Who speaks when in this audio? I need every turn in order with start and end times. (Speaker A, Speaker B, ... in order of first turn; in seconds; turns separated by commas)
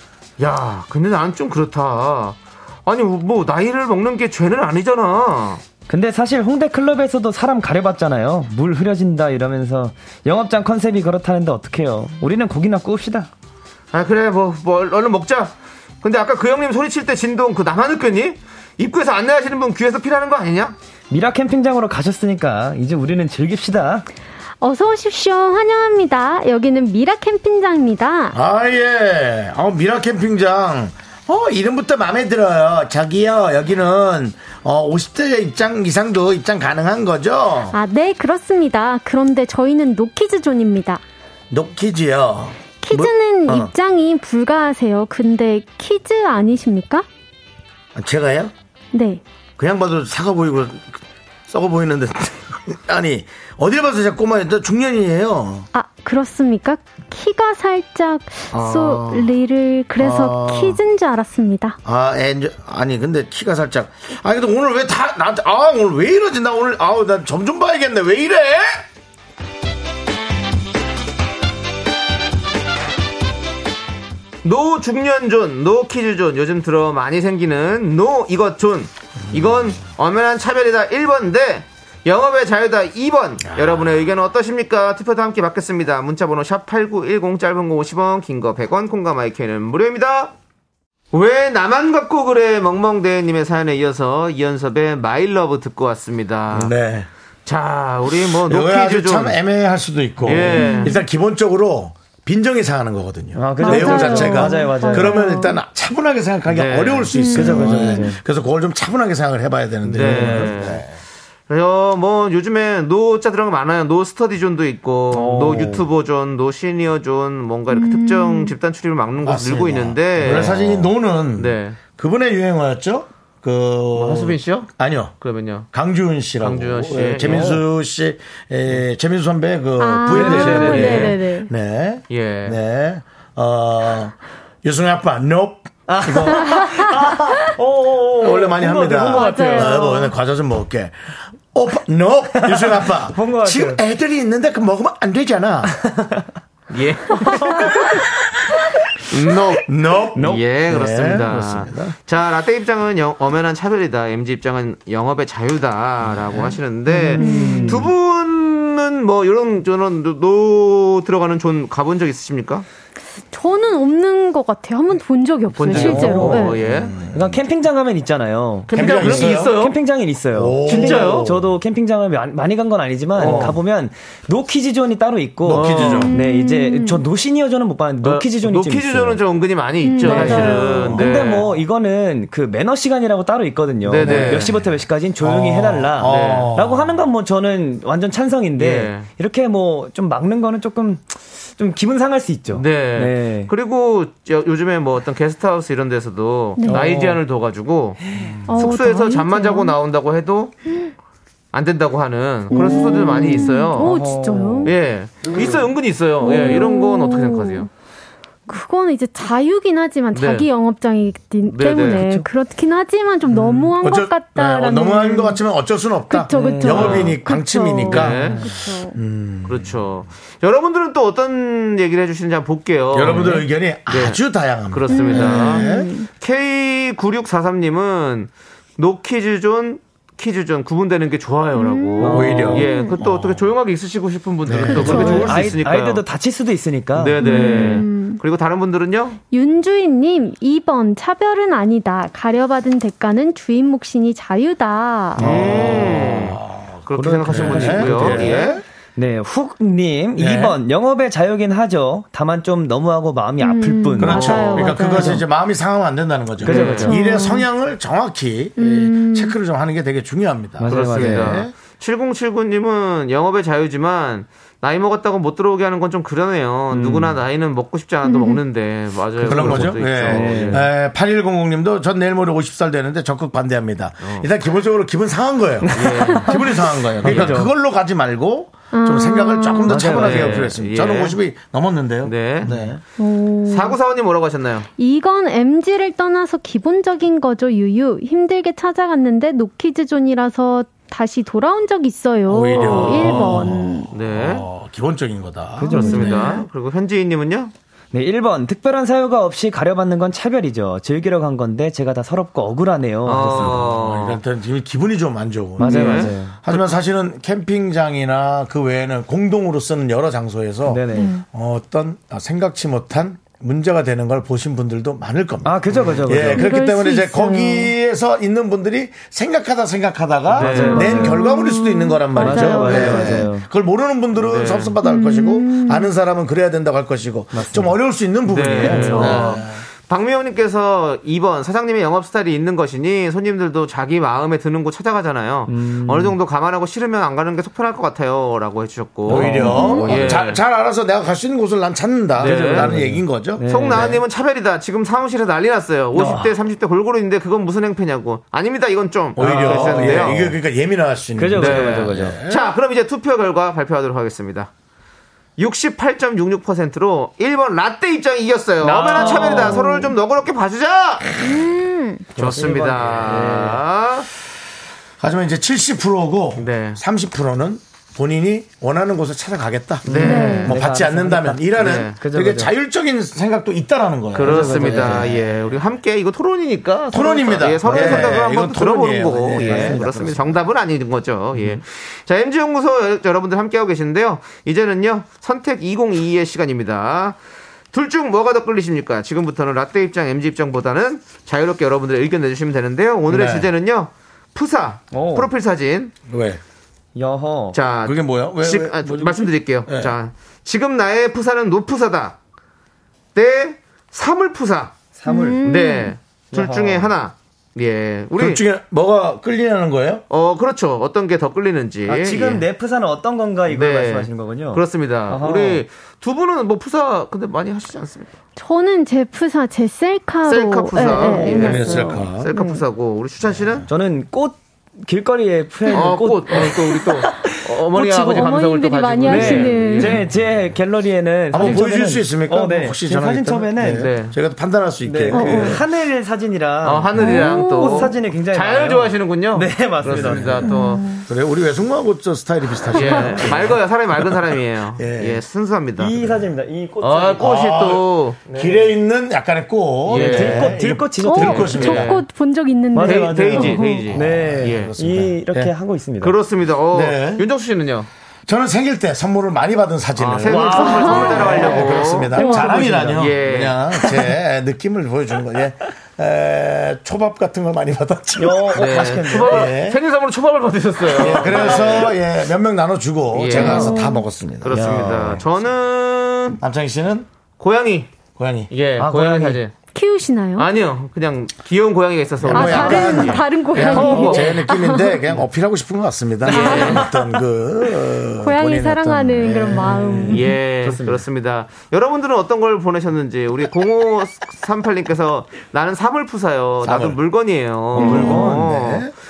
Speaker A: 0.4-5.6, Speaker B: 5.9-13.3, Speaker A: 13.9-20.8, Speaker B: 21.1-24.1, Speaker C: 24.6-28.4, Speaker D: 28.3-37.8, Speaker C: 37.7-41.0, Speaker D: 41.5-43.7, Speaker C: 42.8-47.1, Speaker D: 48.0-48.5, Speaker C: 48.9-49.2, Speaker D: 49.6-55.7, Speaker C: 55.7-61.8, Speaker D: 58.5-59.3, Speaker D: 60.0-60.8, Speaker D: 61.8-68.8, Speaker A: 74.4-90.3, Speaker D: 79.3-79.8, Speaker D: 83.4-84.0, Speaker A: 91.1-96.7, Speaker D: 96.5-97.1, Speaker A: 97.5-99.4, Speaker D: 98.3-111.0, Speaker A: 100.2-100.9, Speaker C: 100.5-101.0, Speaker B: 103.3-105.2, Speaker C: 103.6-105.6, Speaker A: 106.5-107.2, Speaker C: 107.1-108.1, Speaker B: 107.3-108.2, Speaker A: 109.8-110.8, Speaker B: 110.0-110.6, Speaker A: 111.5-121.8, Speaker B: 115.1-115.8, Speaker C: 117.7-118.6, Speaker D: 119.2-125.2, Speaker A: 124.0-125.7, Speaker D: 125.7-136.8, Speaker A: 126.4-127.6, Speaker B: 127.2-127.6, Speaker C: 129.8-131.5, Speaker A: 130.1-131.2, Speaker B: 130.1-131.1, Speaker A: 132.1-132.6, Speaker B: 135.9-140.1, Speaker C: 136.3-136.9, Speaker D: 138.2-141.0, Speaker C: 139.0-140.1, Speaker D: 141.5-145.8, Speaker B: 142.3-143.8, Speaker B: 145.7-146.2, Speaker A: 146.7-147.7, Speaker C: 147.2-147.8, Speaker B: 147.3-147.7, Speaker A: 149.1-162.7, Speaker D: 149.7-152.0, Speaker C: 156.9-157.9, Speaker B: 157.0-157.9, Speaker C: 163.3-166.5, Speaker A: 165.5-166.9, Speaker B: 165.7-166.5, Speaker D: 166.5-167.4, Speaker B: 167.1-179.2, Speaker A: 168.7-169.8, Speaker D: 168.7-169.6, Speaker D: 170.3-171.5, Speaker A: 170.7-171.3, Speaker A: 173.2-173.6, Speaker D: 173.2-173.6, Speaker D: 175.4-176.2, Speaker A: 175.5-176.1, Speaker C: 175.8-177.1, Speaker A: 178.0-181.5, Speaker C: 179.8-181.1, Speaker B: 180.0-193.5, Speaker A: 183.8-184.6, Speaker D: 184.0-184.5, Speaker D: 185.2-186.8, Speaker A: 186.0-186.6, Speaker A: 188.6-189.1, Speaker A: 192.5-198.0, Speaker C: 196.6-196.9, Speaker B: 196.7-197.2, Speaker B: 198.0-198.4, Speaker C: 198.5-199.7, Speaker A: 198.5-200.6, Speaker A: 201.5-204.0, Speaker C: 202.5-204.7, Speaker B: 203.8-204.7, Speaker A: 204.6-207.7, Speaker C: 206.2-207.7, Speaker C: 208.5-215.4, Speaker A: 210.1-210.5, Speaker A: 211.5-212.0, Speaker B: 211.8-212.3, Speaker D: 213.3-219.9, Speaker C: 216.1-219.0, Speaker B: 216.3-217.1, Speaker A: 216.7-217.2, Speaker A: 217.9-218.4, Speaker A: 219.5-236.0, Speaker D: 222.9-225.8, Speaker B: 223.1-223.5, Speaker C: 224.9-226.1, Speaker C: 231.5-233.0, Speaker B: 232.0-232.7, Speaker D: 232.1-233.5, Speaker D: 234.5-235.2, Speaker C: 234.7-235.5, Speaker B: 234.8-237.8, Speaker A: 236.9-239.2, Speaker C: 237.2-238.2, Speaker C: 239.3-245.3, Speaker B: 245.2-246.2, Speaker A: 245.2-248.5, Speaker D: 245.2-248.6, Speaker B: 246.9-255.2, Speaker C: 248.3-248.6, Speaker D: 250.2-250.6, Speaker C: 253.4-255.2, Speaker D: 254.0-261.5, Speaker A: 254.1-254.8, Speaker B: 256.4-256.9, Speaker A: 256.4-256.9, Speaker C: 256.8-257.5, Speaker C: 258.6-259.4, Speaker B: 260.6-261.4, Speaker A: 260.7-270.7, Speaker B: 266.7-267.2, Speaker C: 268.0-268.4, Speaker D: 269.2-282.8, Speaker B: 269.2-270.7, Speaker A: 274.0-274.3, Speaker B: 275.7-276.4, Speaker A: 275.7-276.4, Speaker B: 277.0-277.5, Speaker A: 277.1-277.4, Speaker C: 278.7-279.9, Speaker B: 279.7-280.5, Speaker A: 279.9-281.2, Speaker A: 282.0-282.6, Speaker C: 283.0-283.8, Speaker A: 283.5-284.7, Speaker C: 284.8-293.9, Speaker D: 292.3-296.2, Speaker A: 292.6-294.5, Speaker B: 295.6-296.4, Speaker C: 295.7-296.4, Speaker A: 295.7-297.5, Speaker B: 297.9-303.8, Speaker A: 303.1-304.2, Speaker D: 303.4-329.6, Speaker B: 305.6-306.4, Speaker A: 305.6-306.7, Speaker B: 310.7-311.1, Speaker C: 310.9-311.2, Speaker B: 315.4-316.5, Speaker C: 316.2-317.7, Speaker B: 320.4-321.2, Speaker A: 320.4-320.9, Speaker C: 320.5-323.3, Speaker B: 322.2-323.5, Speaker A: 324.2-324.8, Speaker C: 324.8-325.9, Speaker B: 327.3-327.7, Speaker A: 328.3-340.4, Speaker B: 328.6-329.4, Speaker B: 335.5-336.2, Speaker B: 339.1-340.2, Speaker D: 339.1-344.0, Speaker C: 339.3-339.9, Speaker B: 342.2-344.0, Speaker A: 342.2-342.7, Speaker A: 343.5-350.3, Speaker B: 345.9-346.3, Speaker D: 349.2-352.5, Speaker B: 349.2-350.3, Speaker B: 351.2-352.2, Speaker A: 351.4-354.5, Speaker A: 355.4-361.2, Speaker B: 358.6-359.8, Speaker C: 359.0-359.9, Speaker C: 361.2-362.1, Speaker B: 362.1-363.6, Speaker A: 362.2-364.1, Speaker D: 365.0-375.3, Speaker A: 366.4-366.8, Speaker A: 369.9-370.5, Speaker B: 369.9-372.5, Speaker C: 370.0-370.6, Speaker A: 371.6-372.0, Speaker A: 374.1-387.2, Speaker B: 374.2-375.2, Speaker D: 376.9-380.3, Speaker B: 377.7-378.2, Speaker B: 379.4-379.9, Speaker A: 387.7-395.9, Speaker D: 393.1-393.5, Speaker B: 394.9-395.3, Speaker D: 396.1-396.4, Speaker B: 396.9-397.6, Speaker A: 397.5-402.2, Speaker D: 397.8-399.9, Speaker A: 403.1-404.8, Speaker B: 405.0-405.5, Speaker C: 405.1-406.0, Speaker A: 405.4-408.4, Speaker B: 406.3-406.9, Speaker D: 408.2-410.0, Speaker A: 410.1-412.4, Speaker B: 411.9-415.6, Speaker A: 413.5-418.1, Speaker C: 418.4-422.6, Speaker A: 420.3-423.7, Speaker B: 421.1-421.6, Speaker D: 421.3-422.3, Speaker B: 423.7-428.2, Speaker A: 425.7-430.0, Speaker C: 427.8-430.1, Speaker B: 429.1-433.9, Speaker D: 431.3-435.6, Speaker A: 431.4-431.6, Speaker A: 433.8-434.1, Speaker B: 434.8-440.5, Speaker C: 435.1-435.6, Speaker A: 436.6-440.9, Speaker C: 436.9-438.0, Speaker D: 439.9-440.4, Speaker C: 440.4-441.1, Speaker D: 441.1-443.6, Speaker C: 442.7-443.4, Speaker A: 442.7-446.0, Speaker D: 444.8-445.2, Speaker B: 445.8-447.2, Speaker A: 446.8-448.3, Speaker D: 447.2-451.9, Speaker B: 448.3-448.6, Speaker B: 449.9-451.9, Speaker A: 449.9-450.5, Speaker C: 451.0-453.9, Speaker A: 451.5-452.0, Speaker B: 452.7-456.2, Speaker A: 452.8-454.7, Speaker D: 453.9-455.5, Speaker A: 456.0-457.9, Speaker D: 456.7-457.3, Speaker D: 458.3-469.8, Speaker A: 460.0-462.3, Speaker B: 460.2-463.1, Speaker C: 460.5-462.8, Speaker A: 462.8-463.6, Speaker B: 463.8-464.1, Speaker B: 468.2-469.5, Speaker A: 468.5-471.9, Speaker D: 470.9-475.0, Speaker A: 473.1-473.8, Speaker B: 473.3-473.7, Speaker C: 473.3-474.1, Speaker A: 474.4-476.4, Speaker B: 474.5-475.2, Speaker D: 476.4-477.1, Speaker A: 477.4-477.9, Speaker D: 478.2-478.5, Speaker A: 478.5-479.5, Speaker B: 478.8-479.4, Speaker C: 479.8-480.5, Speaker A: 480.4-484.3, Speaker D: 482.2-490.3, Speaker C: 482.3-485.0, Speaker B: 482.5-482.8, Speaker B: 486.3-487.1, Speaker A: 486.3-486.8, Speaker C: 486.4-486.8, Speaker C: 488.2-490.3, Speaker A: 490.1-498.9, Speaker B: 490.5-491.0, Speaker D: 496.6-497.0, Speaker B: 497.8-498.5, Speaker D: 497.8-498.9, Speaker C: 497.8-498.3